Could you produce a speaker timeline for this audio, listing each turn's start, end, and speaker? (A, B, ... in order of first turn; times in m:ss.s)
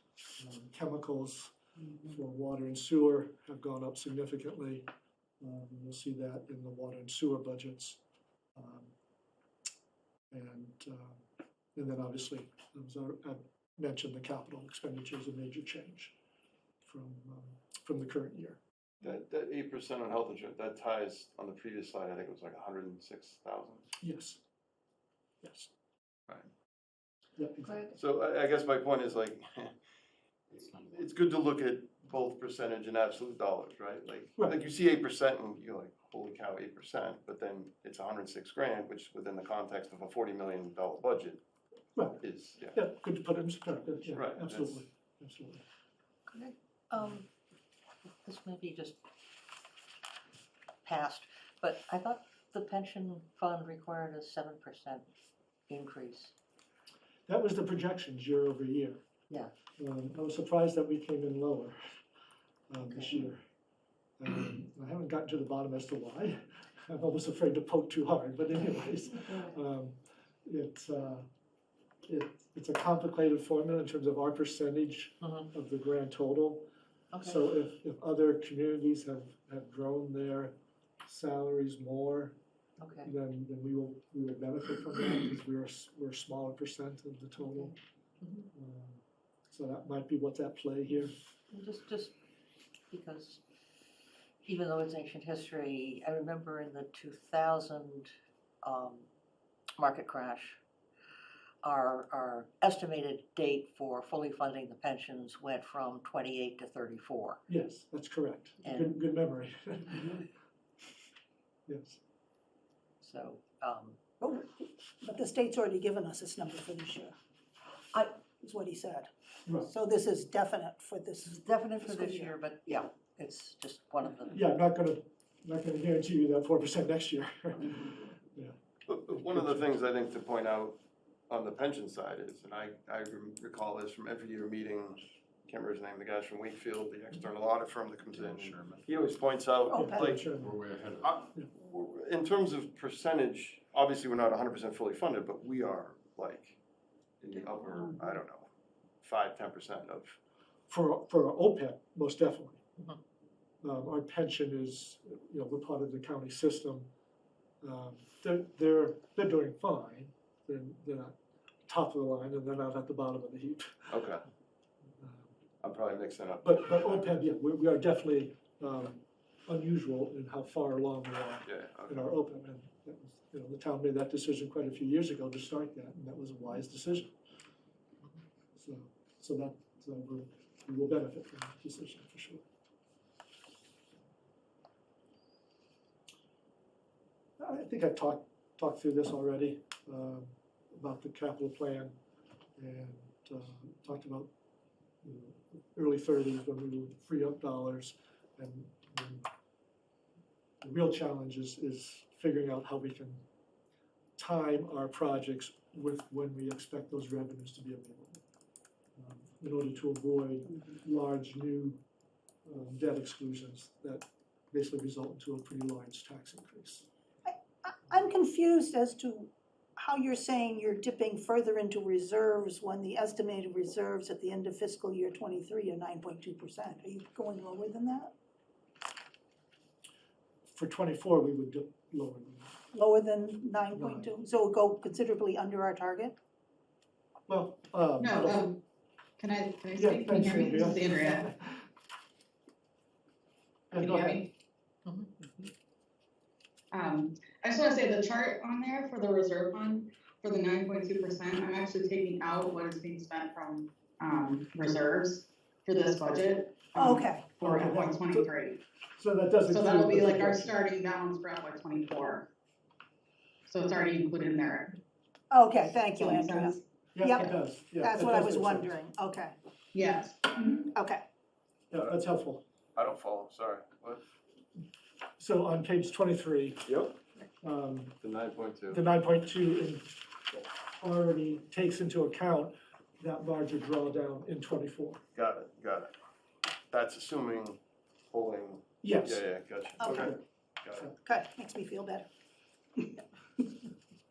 0:00.4-0:04.9 A
0:05.4-0:08.0 A
0:08.6-0:08.9 A
0:10.3-0:16.2 A
0:16.8-0:18.6 A
0:19.0-0:23.9 B
0:24.0-0:24.4 A
0:25.4-0:25.7 A
0:27.4-0:27.9 A
0:27.6-0:27.9 C
0:27.9-0:29.7 B
0:30.5-0:41.4 B
0:30.6-0:31.0 D
0:42.0-0:45.6 A
0:42.2-0:42.8 B
0:44.0-0:44.9 B
0:46.3-0:47.3 C
0:48.2-0:49.0 C
0:50.8-0:55.1 C
0:55.7-0:56.3 C
0:57.3-0:59.0 A
0:59.8-1:01.8 A
1:02.7-1:03.4 A
1:02.9-1:03.2 C
1:04.2-1:11.3 A
1:12.1-1:16.7 A
1:15.2-1:15.5 C
1:17.1-1:17.4 C
1:17.2-1:22.4 A
1:22.8-1:23.1 C
1:23.0-1:27.7 A
1:27.4-1:28.5 C
1:28.5-1:31.2 A
1:31.5-1:32.2 C
1:32.9-1:33.4 C
1:34.4-1:38.1 C
1:38.6-1:39.1 C
1:39.8-1:40.6 C
1:41.6-1:47.4 C
1:47.5-1:50.3 A
1:48.6-1:49.0 C
1:51.7-1:52.0 A
1:53.0-1:54.0 C
1:54.2-1:57.1 E
1:57.9-2:02.4 E
2:01.3-2:04.4 C
2:04.3-2:08.6 A
2:08.9-2:20.3 B
2:09.1-2:09.8 A
2:18.1-2:19.1 D
2:19.7-2:20.2 E
2:19.8-2:20.6 A
2:20.3-2:21.3 D
2:21.0-2:26.6 B
2:27.2-2:28.5 B
2:29.0-2:30.2 B
2:30.7-2:32.6 A
2:33.6-2:36.9 A
2:37.6-2:44.0 A
2:43.9-2:44.2 B
2:45.0-2:45.3 A
2:45.6-2:47.1 B
2:46.4-2:57.1 A
2:51.5-2:52.1 B
2:58.6-3:02.4 A
3:07.4-3:12.0 A
3:12.6-3:14.3 A
3:15.0-3:19.3 A
3:20.6-3:23.2 A
3:24.2-3:28.2 A
3:29.0-3:31.8 A
3:32.5-3:36.9 A
3:37.2-3:48.1 E
3:50.5-3:52.6 A
3:52.7-3:56.2 E
3:53.7-3:54.1 A
3:57.3-3:58.5 A
3:58.0-3:58.6 F
3:59.2-4:01.3 F
3:59.8-4:01.6 A
4:03.7-4:04.3 A
4:03.8-4:04.3 F
4:04.8-4:05.1 C
4:06.7-4:18.6 F
4:16.8-4:17.4 E
4:17.4-4:18.3 A
4:19.0-4:20.6 A
4:19.5-4:22.3 F
4:23.5-4:24.8 F
4:25.3-4:29.4 E
4:26.0-4:26.6 F
4:27.0-4:28.8 A
4:29.7-4:30.5 F
4:30.7-4:31.0 E
4:31.7-4:32.4 A
4:32.8-4:34.0 B
4:35.2-4:36.7 A
4:36.7-4:37.0 B
4:37.4-4:38.0 A
4:38.0-4:38.8 B
4:38.7-4:40.1 A
4:40.8-4:45.0 A
4:45.2-4:45.9 B
4:46.7-4:50.9 B
4:48.8-4:50.2 A
4:49.8-4:50.2 E
4:51.0-4:52.1 E
4:52.8-4:53.0 E